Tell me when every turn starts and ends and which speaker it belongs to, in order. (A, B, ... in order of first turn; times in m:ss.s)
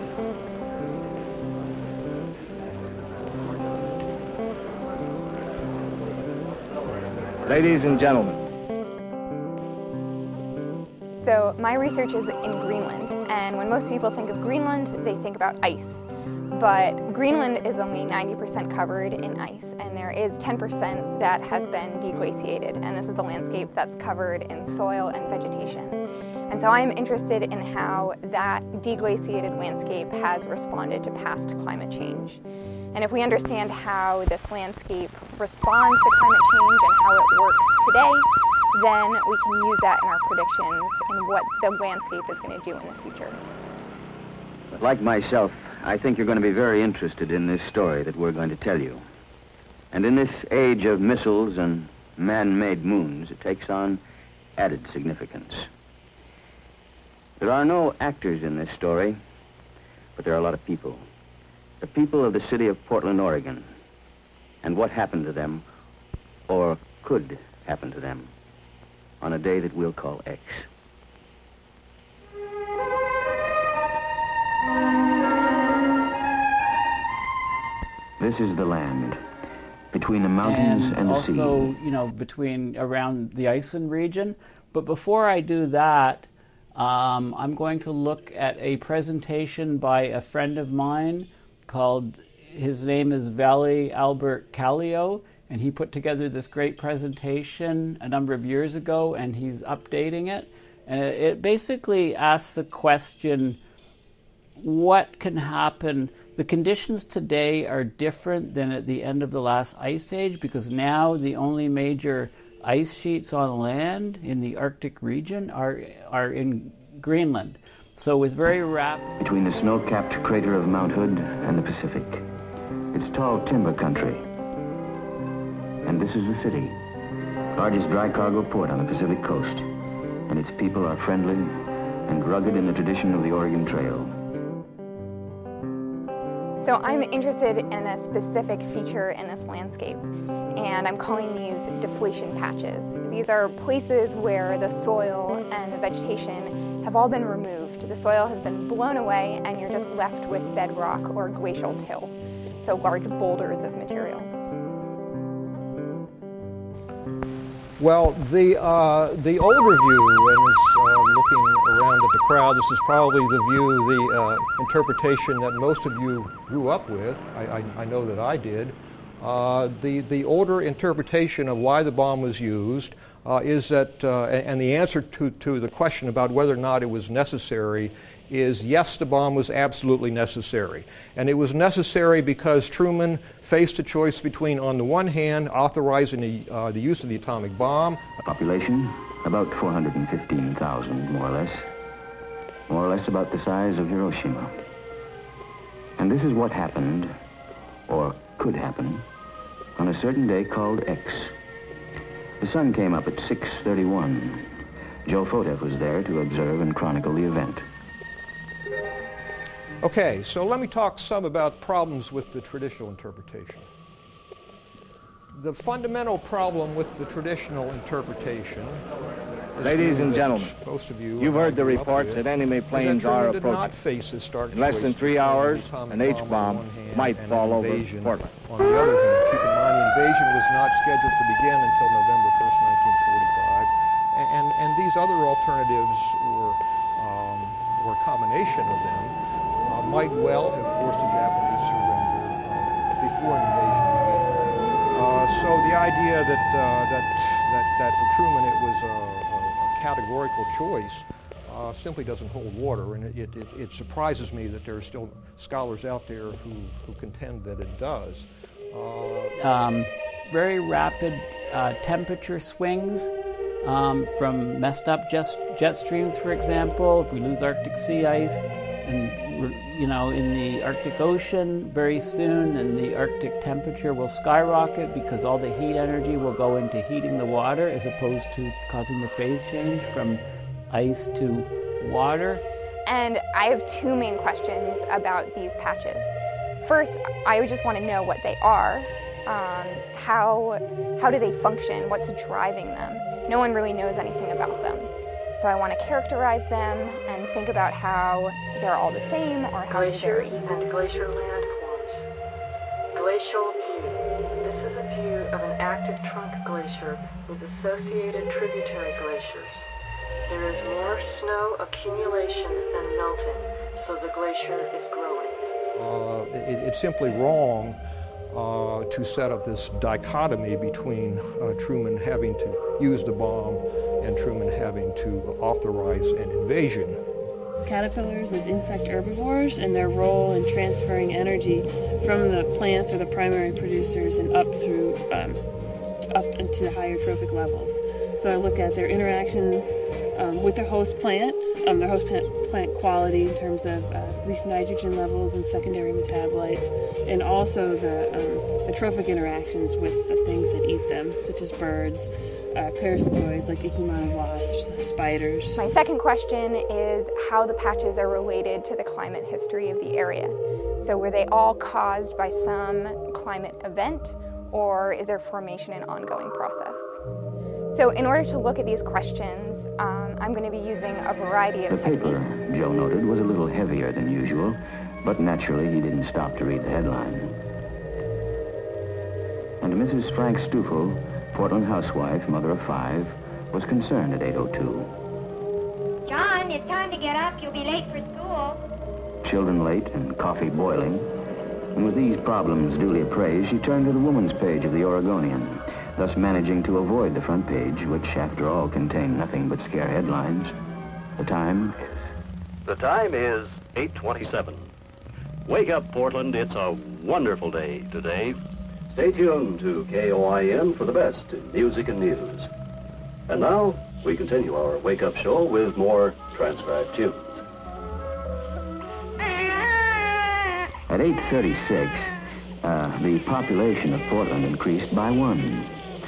0:07.4-0:08.4 A
0:11.2-0:32.4 B
0:32.9-0:43.4 B
0:44.7-0:49.0 C
0:49.9-0:54.0 C
0:54.6-0:55.7 C
0:57.4-0:59.2 C
1:00.2-1:01.1 C
1:01.8-1:03.7 C
1:04.6-1:05.6 C
1:06.5-1:08.3 C
1:09.2-1:10.7 C
1:18.2-1:19.2 C
1:19.9-1:21.7 C
1:20.4-1:43.6 D
1:44.6-1:59.1 D
1:59.2-2:02.2 C
2:02.9-2:04.3 C
2:05.8-2:06.8 C
2:07.5-2:09.7 C
2:10.3-2:14.1 C
2:16.6-2:20.0 B
2:20.6-2:34.3 B
2:37.8-3:08.2 E
3:08.2-3:11.7 C
3:12.7-3:14.6 C
3:16.0-3:17.2 C
3:17.9-3:19.1 C
3:19.8-3:21.3 C
3:22.4-3:27.6 C
3:29.8-3:33.7 E
3:35.3-3:38.8 E
3:39.5-4:19.4 E
3:39.6-3:40.5 A
3:41.2-3:43.7 A
3:44.5-3:48.3 A
4:19.4-4:23.1 D
4:23.6-4:42.4 D
4:42.9-5:00.4 B
4:59.7-5:02.0 F
5:02.9-5:09.7 F
5:10.3-5:15.4 F
5:15.8-5:17.8 E
5:18.3-5:27.0 E
5:27.6-5:35.4 G
5:36.1-5:55.6 G
5:55.6-6:07.0 B
6:07.7-6:12.3 B
6:11.7-6:17.4 C
6:19.6-6:24.9 C
6:26.0-6:28.6 H
6:29.2-6:31.1 C
6:31.8-6:40.5 C
6:41.2-6:41.8 C
6:42.6-6:44.7 I
6:45.5-6:48.4 I
6:48.9-6:52.5 I
6:53.3-6:57.4 I
7:00.9-7:02.1 C
7:02.6-7:05.8 C